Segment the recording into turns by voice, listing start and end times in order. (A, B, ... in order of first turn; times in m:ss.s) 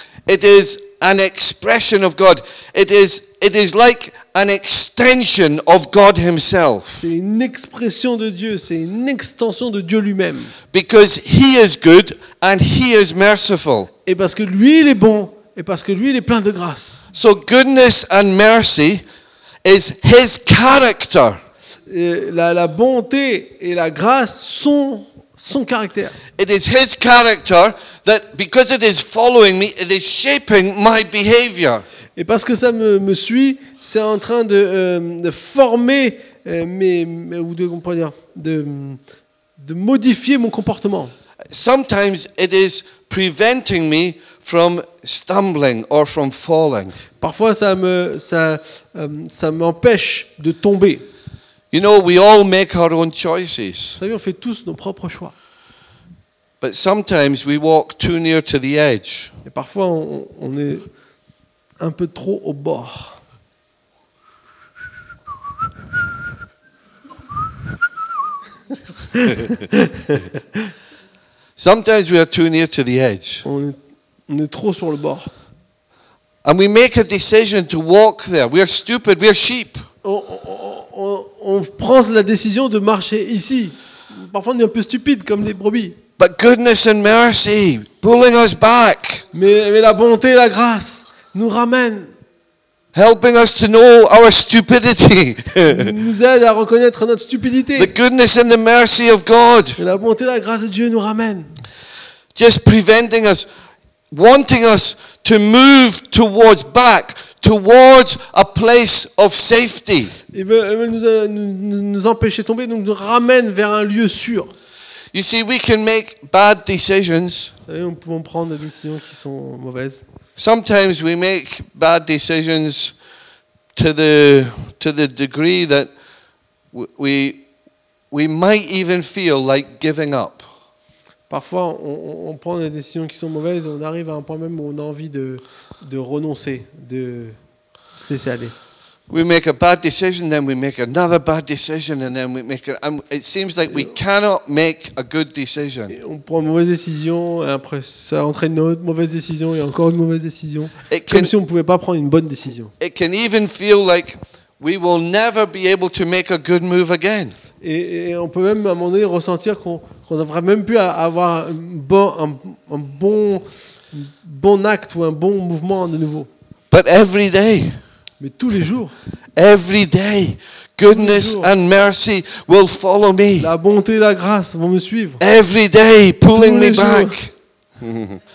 0:00.3-0:07.1 A
0:06.9-0:10.5 B
0:10.7-0:13.9 A
0:14.1-0:17.1 B
0:17.1-0:19.0 A
0:19.6-0:21.4 A
0:21.9-0:26.2 B
0:26.4-0:31.8 A
0:32.2-0:39.0 B
0:39.6-0:41.1 B
0:41.5-0:47.0 A
0:47.2-0:51.1 B
0:51.7-0:54.0 A
0:54.0-0:55.3 B
0:56.6-0:59.4 A
0:59.4-1:00.9 B
1:01.8-1:03.2 B
1:09.1-1:10.6 B
1:11.6-1:13.4 A
1:13.4-1:15.3 B
1:16.4-1:19.8 A
1:20.0-1:26.0 B
1:26.2-1:29.3 A
1:29.3-1:32.1 B
1:32.9-1:35.9 A
1:35.6-1:37.9 B
1:37.8-1:39.8 A
1:39.8-1:41.5 B
1:42.4-1:43.4 A
1:44.1-1:50.2 A
1:50.3-1:54.5 B
1:55.1-1:57.5 A
1:57.7-2:00.0 B
2:00.4-2:02.9 A
2:03.8-2:05.9 A
2:06.7-2:07.4 A
2:08.1-2:10.5 A
2:11.3-2:17.4 B
2:17.9-2:18.5 B
2:19.1-2:25.9 A
2:25.9-2:32.7 B
2:30.9-2:31.3 A
2:32.8-2:37.4 A
2:37.6-2:46.3 B
2:46.7-2:47.8 A
2:48.2-2:49.0 B
2:49.4-2:53.5 A
2:50.9-2:51.5 B
2:53.4-2:55.2 B
2:55.2-2:58.2 A
2:56.3-2:57.2 B